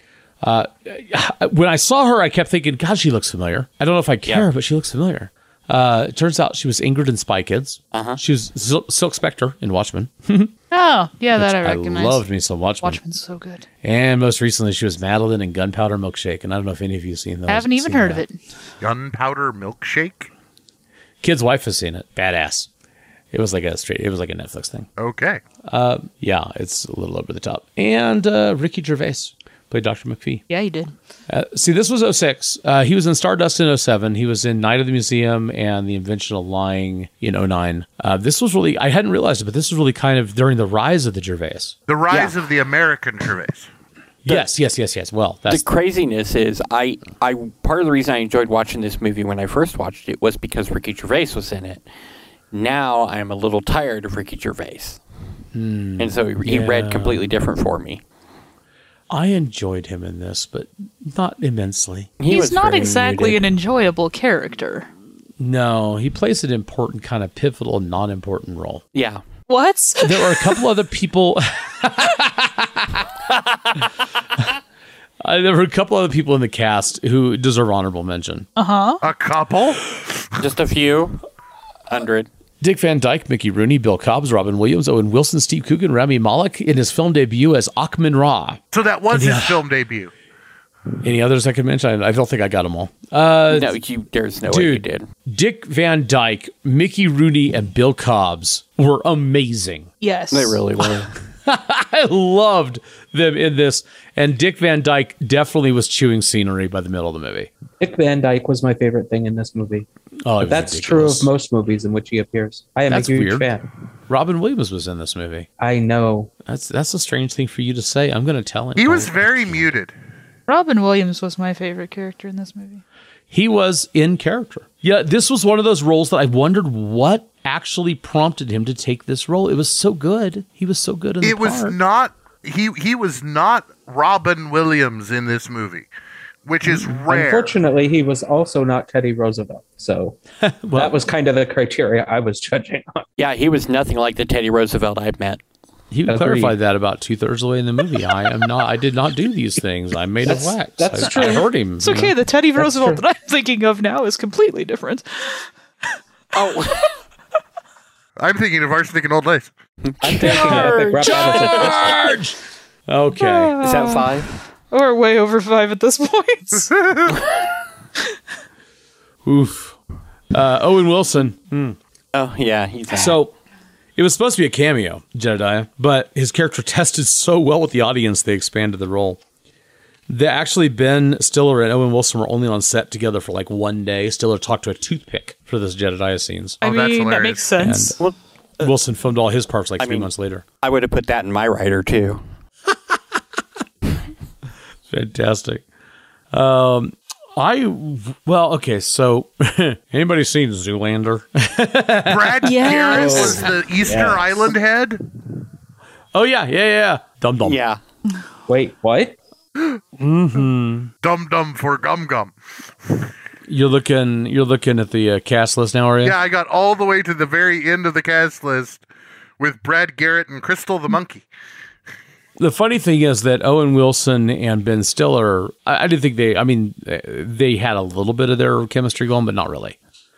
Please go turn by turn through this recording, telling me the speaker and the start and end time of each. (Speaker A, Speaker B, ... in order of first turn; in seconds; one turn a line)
Speaker A: 0.4-10.5
Speaker B: 7.9-8.2
Speaker C: 10.7-12.2
Speaker A: 11.3-13.0
Speaker C: 12.8-13.6
Speaker A: 13.8-18.2
Speaker C: 17.5-18.4
Speaker D: 18.8-20.3
Speaker A: 21.2-22.7
Speaker A: 23.3-24.9
Speaker D: 25.0-25.4
Speaker A: 25.7-30.4
Speaker C: 30.5-30.9
Speaker A: 31.3-41.8
Speaker D: 41.9-43.7
Speaker A: 44.2-45.6
Speaker B: 45.5-51.8
Speaker B: 52.5-55.0
Speaker A: 55.5-57.3
Speaker B: 56.0-58.0
Speaker A: 59.1-62.1
Speaker B: 62.2-63.4
Speaker C: 62.2-64.9
Speaker A: 65.4-68.8
Speaker B: 68.9-69.2
Speaker C: 69.5-70.6
Speaker A: 70.0-73.0
Speaker A: 75.2-78.5
Speaker C: 78.5-79.0
Speaker D: 79.0-79.8
Speaker B: 80.4-81.2
Speaker B: 81.9-82.3
Speaker A: 82.6-89.6
Speaker D: 88.7-90.1
Speaker A: 91.0-93.7
Speaker B: 93.5-95.0
Speaker A: 94.5-99.9
Speaker C: 100.0-100.6
Speaker B: 100.3-101.1
Speaker A: 101.4-107.5
Speaker E: 107.8-109.9
Speaker A: 110.2-111.3
Speaker E: 110.4-113.7
Speaker A: 112.9-113.5
Speaker A: 114.1-115.5
Speaker E: 115.6-116.3
Speaker A: 116.4-119.7
Speaker D: 118.8-119.9
Speaker C: 120.5-122.8
Speaker A: 123.3-131.8
Speaker D: 131.2-135.9
Speaker D: 136.4-137.6
Speaker E: 137.1-140.2
Speaker A: 140.4-141.0
Speaker E: 140.8-143.0
Speaker B: 143.2-145.4
Speaker A: 145.9-152.1
Speaker E: 146.1-146.5
Speaker E: 150.2-151.4
Speaker C: 151.2-155.4
Speaker E: 152.6-153.0
Speaker B: 156.3-156.8
Speaker D: 158.2-159.5
Speaker B: 159.9-160.6
Speaker E: 160.0-162.1
Speaker C: 160.2-162.2
Speaker A: 162.9-163.5
Speaker C: 163.2-164.1
Speaker B: 163.6-164.3
Speaker C: 164.7-166.7
Speaker D: 166.7-167.2
Speaker A: 169.2-169.8
Speaker A: 170.3-171.8
Speaker B: 172.1-173.2
Speaker A: 172.9-173.3
Speaker A: 173.9-179.2
Speaker A: 180.1-186.6
Speaker C: 186.6-187.9
Speaker D: 186.6-187.5
Speaker A: 187.6-188.0
Speaker B: 188.0-188.7
Speaker A: 188.6-190.4
Speaker B: 189.8-190.1
Speaker B: 190.6-192.2
Speaker A: 194.9-195.6
Speaker A: 196.3-202.6
Speaker D: 202.1-205.1
Speaker C: 202.4-203.5
Speaker E: 202.9-204.5
Speaker A: 206.1-207.6
Speaker B: 207.4-207.8
Speaker E: 208.5-209.2
Speaker A: 210.0-210.9
Speaker D: 211.0-212.3
Speaker A: 213.5-216.2
Speaker D: 216.0-218.8
Speaker D: 219.4-221.2
Speaker A: 222.4-229.8